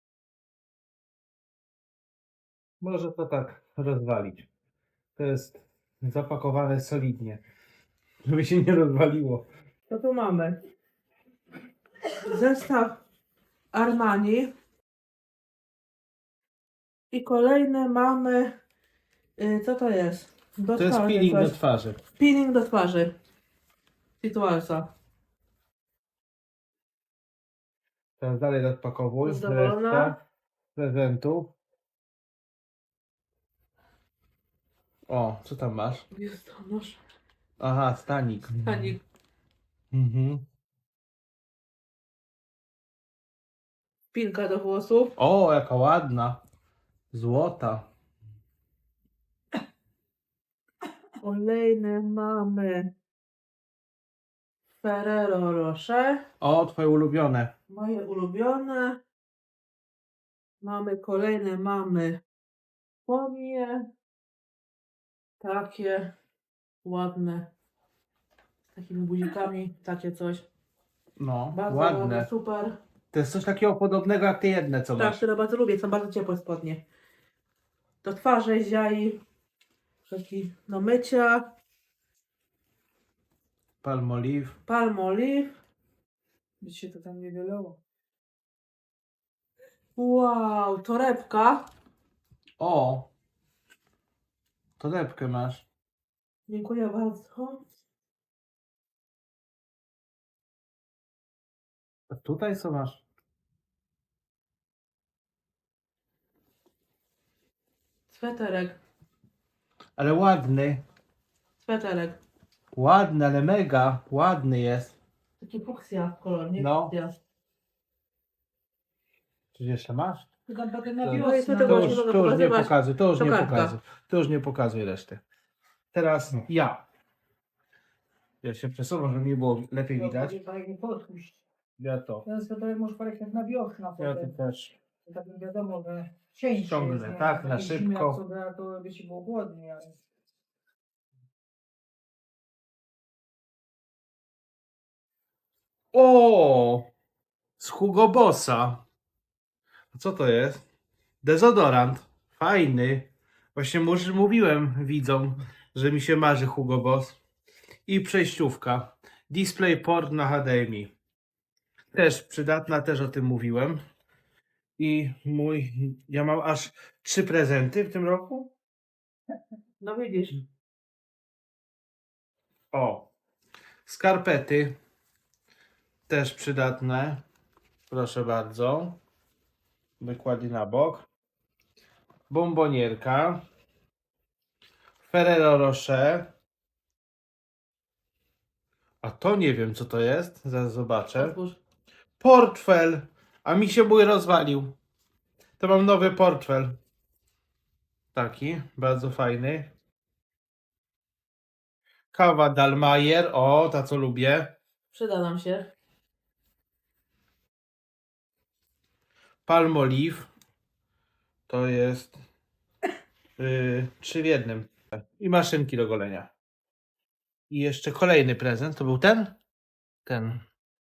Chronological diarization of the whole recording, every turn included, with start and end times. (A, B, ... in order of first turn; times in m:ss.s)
0:02.8-0:04.5 A
0:05.2-0:07.4 A
0:08.2-0:09.4 A
0:09.9-0:10.6 B
0:12.2-0:13.0 B
0:13.7-0:14.5 B
0:17.1-0:18.5 B
0:19.4-0:21.5 B
0:20.7-0:22.0 A
0:22.2-0:23.1 B
0:24.2-0:24.9 B
0:28.2-0:30.2 A
0:29.2-0:30.1 B
0:30.8-0:31.5 A
0:35.1-0:36.0 A
0:36.1-0:37.0 B
0:37.6-0:39.0 A
0:38.6-0:39.0 B
0:39.9-0:40.4 A
0:44.1-0:45.1 B
0:45.2-0:46.4 A
0:47.1-0:47.9 A
0:51.2-0:52.9 B
0:54.8-0:56.2 B
0:56.4-0:57.5 A
0:57.7-0:59.0 B
1:00.6-1:02.2 B
1:03.0-1:03.9 B
1:05.4-1:06.1 B
1:06.8-1:07.5 B
1:08.7-1:10.4 B
1:11.2-1:12.3 A
1:11.5-1:12.8 B
1:13.1-1:15.2 A
1:15.0-1:16.8 B
1:18.0-1:19.2 B
1:20.1-1:21.4 B
1:23.8-1:24.6 A
1:24.6-1:25.5 B
1:26.6-1:27.8 C
1:30.0-1:31.7 B
1:32.6-1:33.1 A
1:34.8-1:35.6 A
1:36.5-1:37.6 B
1:42.1-1:43.0 A
1:48.1-1:48.8 B
1:50.0-1:50.8 A
1:51.6-1:52.2 B
1:52.7-1:55.0 A
1:55.4-1:57.1 B
1:56.5-1:56.9 A
1:59.5-2:00.3 A
2:00.5-2:02.0 C
2:01.0-2:05.2 A
2:01.2-2:03.8 B
2:05.9-2:06.8 A
2:08.4-2:10.4 A
2:09.9-2:11.4 C
2:11.8-2:12.2 A
2:12.2-2:14.3 C
2:14.0-2:14.7 A
2:15.1-2:20.0 C
2:16.6-2:18.2 A
2:25.9-2:26.9 A
2:27.6-2:28.8 A
2:29.9-2:30.6 A
2:31.2-2:37.2 A
2:37.9-2:40.9 A
2:41.9-2:43.8 A
2:44.8-2:48.5 A
2:49.8-2:50.4 B
2:52.7-2:53.1 A
2:53.8-2:54.7 A
2:56.1-2:57.2 A
2:57.9-2:59.0 A
3:00.0-3:01.1 A
3:02.3-3:03.4 A
3:05.0-3:06.3 A
3:09.0-3:11.4 A
3:11.2-3:11.6 B
3:12.2-3:14.7 A
3:15.6-3:16.7 A
3:18.1-3:19.7 A
3:22.1-3:24.5 A
3:24.9-3:25.7 B
3:29.4-3:30.3 A
3:31.5-3:32.2 A
3:33.4-3:36.3 A
3:37.5-3:39.3 A
3:40.0-3:40.4 A